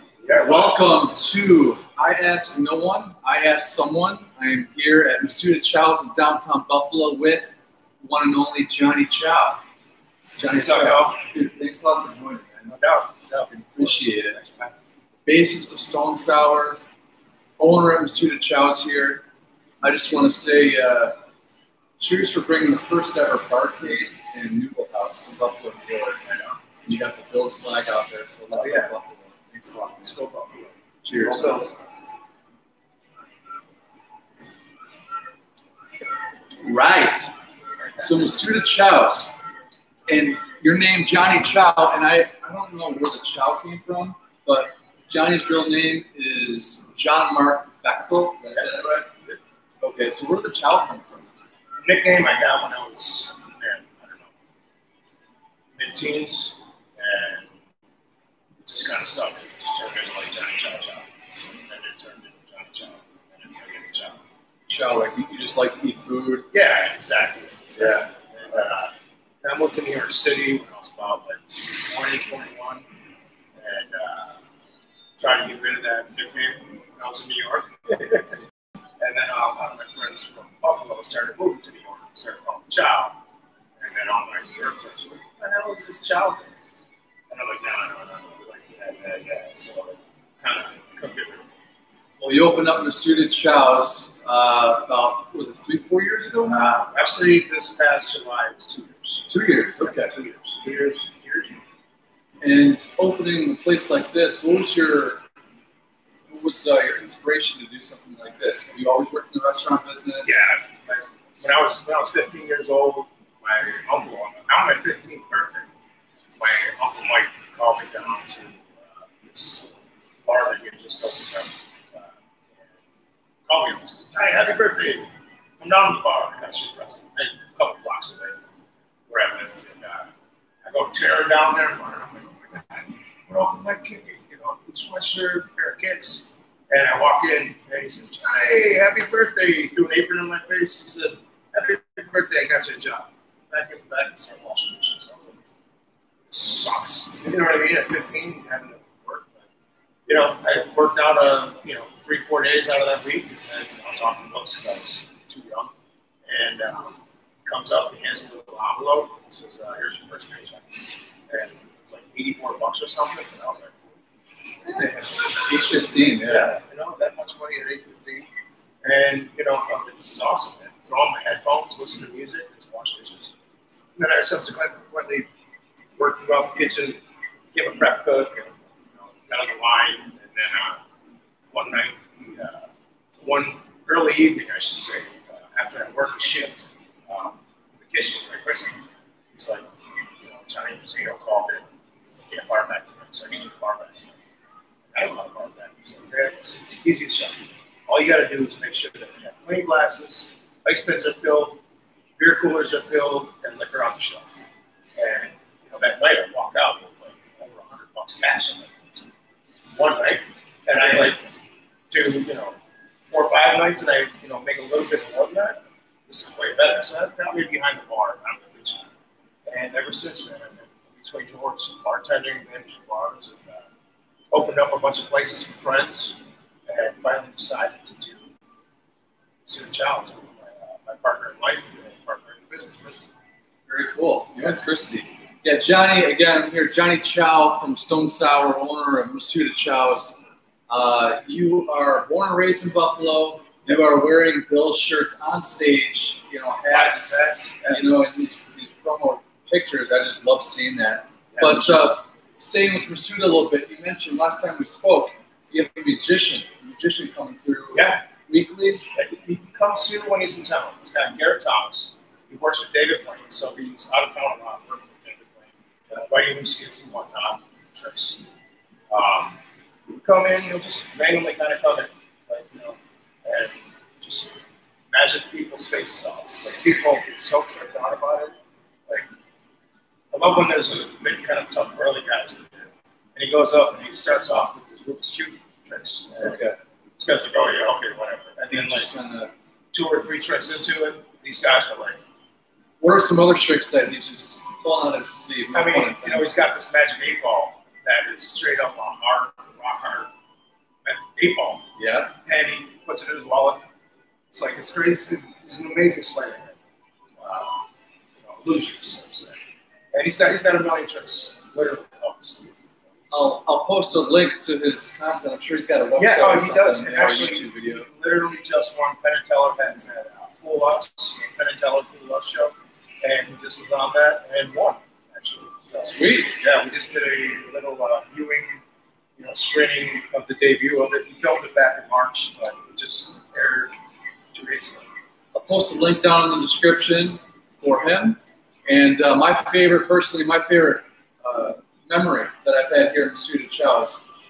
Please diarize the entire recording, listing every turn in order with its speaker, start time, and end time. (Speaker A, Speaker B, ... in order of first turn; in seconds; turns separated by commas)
Speaker A: 0.2-0.9, Speaker B: 0.4-9.6, Speaker B: 10.4-12.8, Speaker A: 10.5-11.2, Speaker A: 12.8-14.8, Speaker B: 13.4-14.4, Speaker B: 15.2-16.8, Speaker B: 17.6-19.2, Speaker B: 19.8-21.1, Speaker B: 22.0-26.3, Speaker B: 26.8-30.2, Speaker A: 28.5-28.9, Speaker A: 30.0-31.8, Speaker B: 31.0-31.7, Speaker B: 36.6-37.3, Speaker A: 38.0-38.3, Speaker B: 38.0-39.3, Speaker B: 40.1-49.1, Speaker B: 49.8-51.4, Speaker A: 51.8-54.3, Speaker A: 55.7-57.5, Speaker A: 58.6-64.2, Speaker B: 64.7-66.5, Speaker A: 66.5-72.9, Speaker B: 67.8-68.0, Speaker A: 73.5-74.3, Speaker A: 75.2-78.4, Speaker A: 79.0-83.2, Speaker A: 83.8-86.5, Speaker A: 87.3-91.5, Speaker B: 92.2-96.6, Speaker A: 96.5-101.6, Speaker B: 99.3-100.2, Speaker B: 102.4-105.2, Speaker B: 106.3-110.4, Speaker A: 110.2-115.7, Speaker A: 116.4-122.7, Speaker A: 123.5-128.4, Speaker A: 129.1-130.1, Speaker A: 130.6-145.4, Speaker A: 146.3-149.4, Speaker A: 150.1-155.7, Speaker A: 156.2-164.0, Speaker A: 164.6-168.3, Speaker B: 164.8-166.5, Speaker A: 168.8-173.3, Speaker A: 173.9-175.3, Speaker A: 176.0-177.0, Speaker A: 177.5-180.8, Speaker A: 181.5-182.7, Speaker A: 183.2-188.8, Speaker A: 189.3-191.7, Speaker A: 192.2-194.2, Speaker A: 194.9-201.6, Speaker A: 202.2-204.2, Speaker A: 204.9-208.9, Speaker A: 209.7-211.3, Speaker A: 211.9-212.6, Speaker A: 213.1-218.8, Speaker A: 219.4-223.7, Speaker A: 224.3-228.3, Speaker A: 229.4-233.0, Speaker B: 233.7-240.2, Speaker B: 240.7-258.9, Speaker A: 246.7-247.8, Speaker A: 251.3-251.8, Speaker A: 257.7-258.0, Speaker A: 258.9-268.2, Speaker A: 268.9-274.4, Speaker A: 274.9-278.4, Speaker A: 280.1-286.4, Speaker B: 286.2-286.6, Speaker A: 287.0-288.9, Speaker B: 288.5-289.3, Speaker A: 289.7-292.0, Speaker B: 292.8-296.2, Speaker A: 295.5-300.1, Speaker A: 300.8-301.6, Speaker B: 301.8-302.1, Speaker A: 302.2-303.6, Speaker A: 304.3-306.6, Speaker A: 307.2-307.6, Speaker A: 308.2-309.4, Speaker A: 309.9-313.3, Speaker B: 313.1-317.9, Speaker A: 316.0-328.6, Speaker B: 325.9-326.3, Speaker A: 329.2-333.7, Speaker A: 334.3-334.9, Speaker B: 335.3-344.0